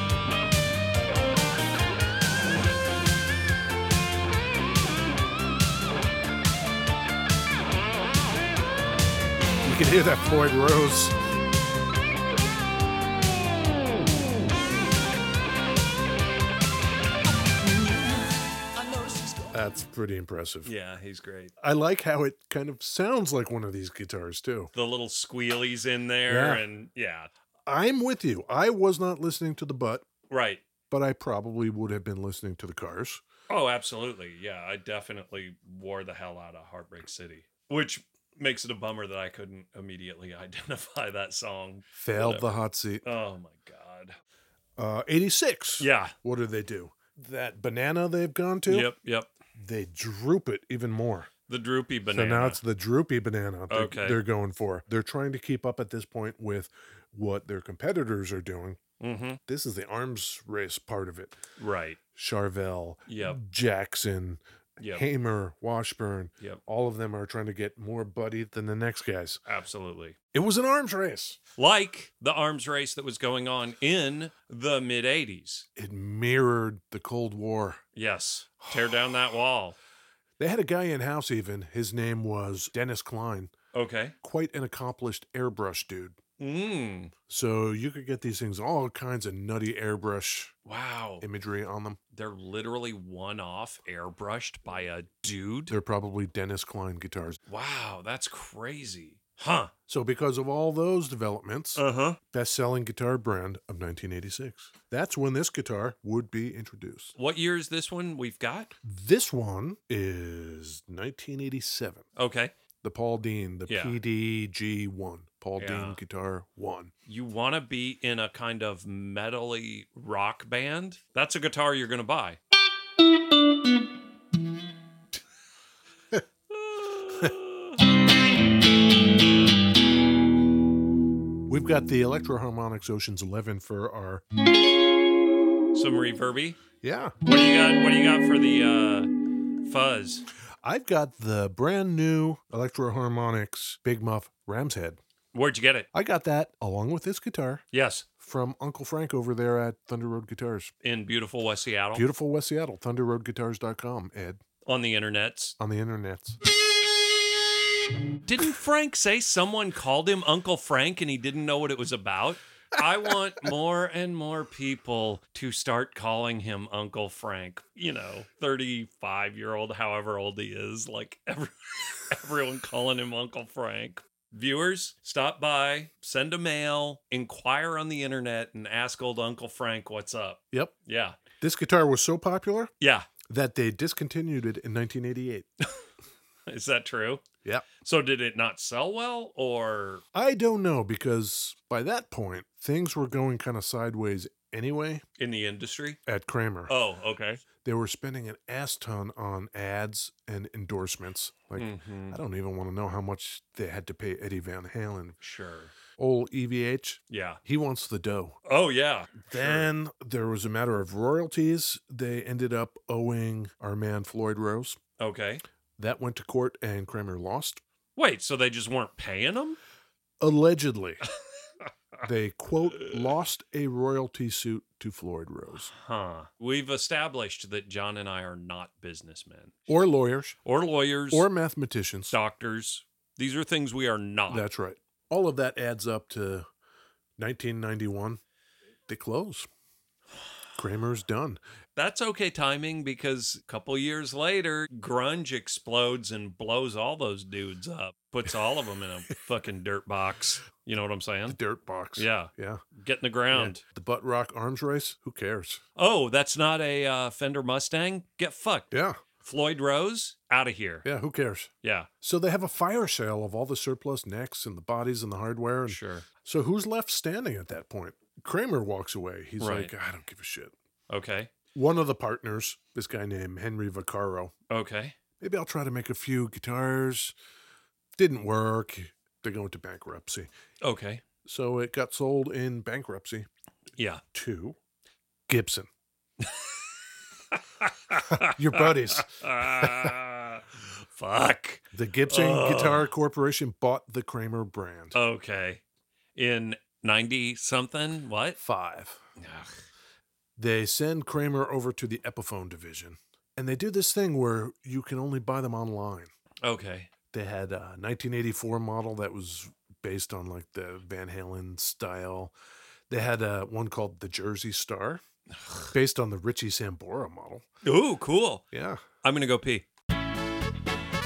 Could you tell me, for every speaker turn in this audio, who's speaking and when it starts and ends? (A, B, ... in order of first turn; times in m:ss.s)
0:09.6-0:11.1 A
0:17.6-0:19.6 B
0:19.5-0:20.7 A
0:20.6-0:21.5 C
0:21.6-0:24.7 A
0:24.7-0:27.3 C
0:26.3-0:26.6 A
0:27.7-0:30.1 A
0:30.3-0:30.6 C
0:30.9-0:33.2 A
0:33.5-0:44.2 C
0:41.9-0:43.0 A
0:44.8-0:48.9 A
0:45.8-0:46.1 C
0:48.7-0:49.3 C
0:49.6-0:51.3 A
0:51.5-0:52.6 C
0:52.1-0:58.8 A
0:53.7-0:54.2 C
0:59.0-0:59.4 C
0:59.4-1:01.4 A
1:01.6-1:02.0 C
1:02.1-1:09.4 A
1:03.1-1:03.4 C
1:04.8-1:05.0 C
1:09.4-1:10.2 C
1:10.3-1:11.4 A
1:11.6-1:15.7 C
1:15.8-1:17.8 A
1:17.9-1:19.8 C
1:18.6-1:19.0 A
1:20.4-1:23.5 A
1:23.7-1:24.1 C
1:24.2-1:26.2 A
1:26.4-1:27.1 C
1:27.3-1:30.5 A
1:30.6-1:31.2 C
1:31.2-1:32.0 A
1:32.1-1:35.7 C
1:35.7-1:37.4 A
1:37.5-1:39.7 C
1:39.9-1:47.1 A
1:41.8-1:42.2 C
1:47.2-1:48.7 C
1:48.8-1:52.0 A
1:52.2-1:52.5 C
1:52.8-1:56.9 A
1:53.7-1:54.0 C
1:55.6-1:56.0 C
1:57.0-2:02.4 C
2:06.5-2:07.8 C
2:11.5-2:14.2 A
2:15.7-2:16.6 C
2:16.8-2:17.1 A
2:17.2-2:19.1 C
2:19.6-2:20.2 C
2:20.6-2:25.0 A
2:25.3-2:25.9 C
2:25.9-2:27.6 A
2:27.7-2:28.0 C
2:28.2-2:30.7 A
2:30.8-2:32.0 C
2:31.9-2:34.4 A
2:34.6-2:35.6 C
2:35.6-2:36.4 A
2:38.2-3:01.2 C
3:01.4-3:02.7 A
3:02.8-3:03.1 C
3:03.3-3:05.5 A
3:06.4-3:07.2 C
3:07.8-3:10.0 C
3:10.1-3:15.0 A
3:15.2-3:16.0 C
3:16.0-3:16.7 A
3:16.7-3:17.4 C
3:17.6-3:25.2 A
3:21.6-3:22.2 C
3:25.2-3:25.7 C
3:26.0-3:28.4 A
3:27.1-3:27.4 C
3:28.4-3:29.7 C
3:29.3-3:34.8 A
3:35.0-3:35.4 C
3:35.8-3:37.6 A
3:38.0-3:39.6 C
3:40.2-3:41.0 A
3:42.0-3:45.7 A
3:45.7-3:49.6 C
3:49.7-3:50.4 A
3:50.4-3:51.3 C
3:51.1-3:52.1 A
3:52.1-3:54.5 C
3:54.3-3:56.5 A
3:57.2-3:58.2 A
3:58.9-3:59.5 A
4:00.5-4:01.4 A
4:01.8-4:11.4 C
4:11.3-4:12.6 A
4:12.0-4:13.6 C
4:13.3-4:15.6 A
4:15.8-4:20.8 C
4:18.7-4:19.0 A
4:20.8-4:30.5 A
4:21.6-4:21.9 C
4:25.7-4:26.1 C
4:29.4-4:29.7 C
4:30.9-4:31.3 C
4:31.5-4:34.3 A
4:34.5-4:35.0 C
4:35.2-4:37.1 A
4:38.0-4:40.3 A
4:40.6-4:41.0 C
4:41.2-4:43.3 A
4:43.8-4:44.0 C
4:44.1-4:44.6 A
4:45.3-4:45.7 A
4:46.2-4:46.7 C
4:47.3-4:52.9 C
4:48.1-4:49.9 A
4:51.7-4:55.0 A
4:54.9-4:55.6 C
4:56.1-4:58.4 C
4:58.4-4:59.0 A
4:59.2-4:59.6 C
5:00.4-5:06.1 A
5:06.4-5:06.9 C
5:07.1-5:12.3 A
5:12.9-5:15.0 A
5:15.4-5:15.7 C
5:15.7-5:17.4 A
5:17.6-5:18.4 C
5:18.5-5:18.8 A
5:19.0-5:19.6 C